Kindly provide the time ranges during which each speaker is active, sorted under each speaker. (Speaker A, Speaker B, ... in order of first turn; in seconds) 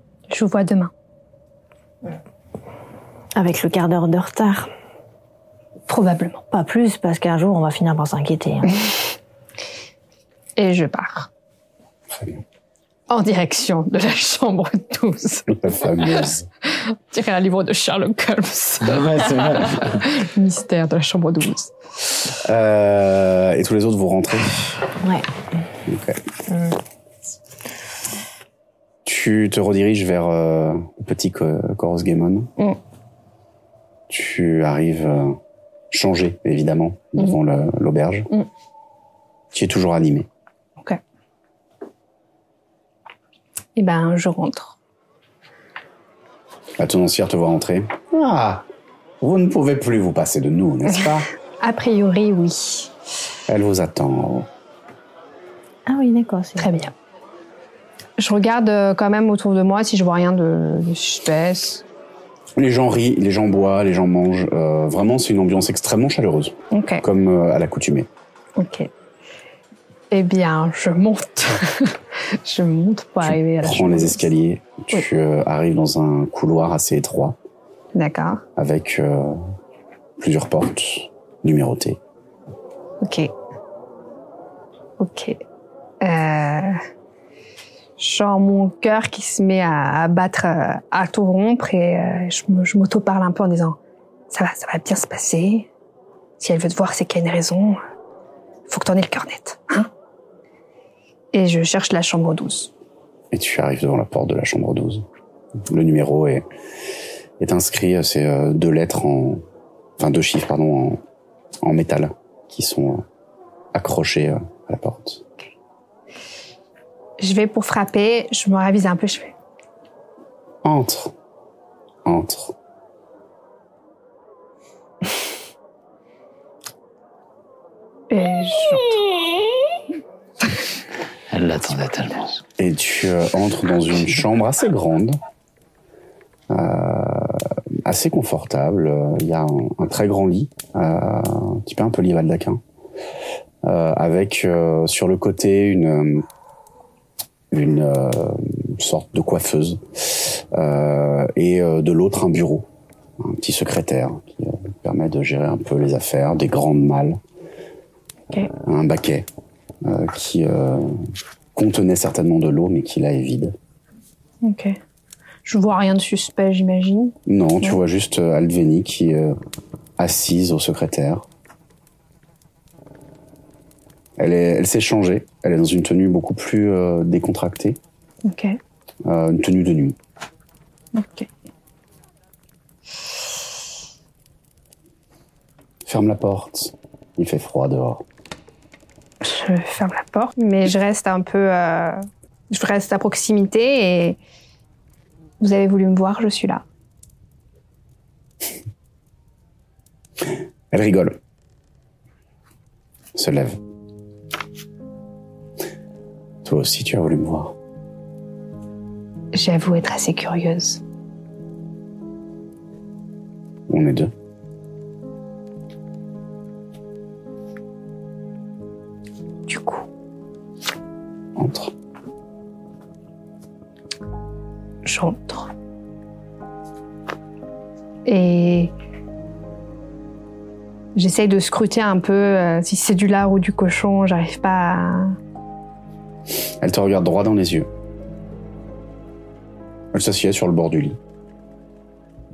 Speaker A: 0.3-0.9, 5.9-6.4, 10.6-11.3, 13.1-21.7, 43.8-44.8, 51.6-52.9, 56.6-56.9, 58.2-61.8, 66.7-67.0, 68.6-68.9, 70.1-74.2, 77.9-78.4, 83.0-83.3, 85.0-85.4, 86.0-86.8, 88.0-93.8, 94.3-95.7, 96.4-97.8, 98.7-99.9, 101.3-102.7, 117.2-119.3, 128.1-129.0, 164.4-164.8, 165.4-167.7, 178.2-178.6, 180.9-181.3, 189.2-194.2, 195.4-196.6, 209.3-210.8, 219.5-219.8, 224.8-225.5, 228.0-228.7, 230.9-235.2
Speaker B: 3.4-4.7, 6.5-8.8, 25.0-25.3, 55.9-56.7
Speaker C: 12.1-12.4, 15.5-16.4, 22.4-24.8, 25.9-26.2, 29.0-32.5, 34.1-35.4, 35.9-38.3, 39.5-40.3, 46.8-48.6, 49.2-51.3, 53.5-54.5, 62.5-68.1, 73.2-77.4, 78.5-79.4, 80.2-82.0, 103.3-105.0, 105.7-106.5, 107.4-109.4, 110.0-111.0, 111.6-113.0, 113.7-115.2, 120.6-121.1, 122.0-122.5, 132.6-135.2, 136.5-142.6, 143.6-146.2, 147.5-152.7, 153.2-157.2, 158.6-159.3, 159.8-161.0, 161.5-163.5, 167.2-169.3, 170.0-171.2, 174.2-177.8, 179.0-179.9, 185.8-188.0, 200.7-201.2, 203.1-203.6, 206.4-207.5, 213.7-214.1, 221.3-221.7, 236.6-237.7, 239.9-241.0
Speaker D: 18.9-19.6, 131.3-132.4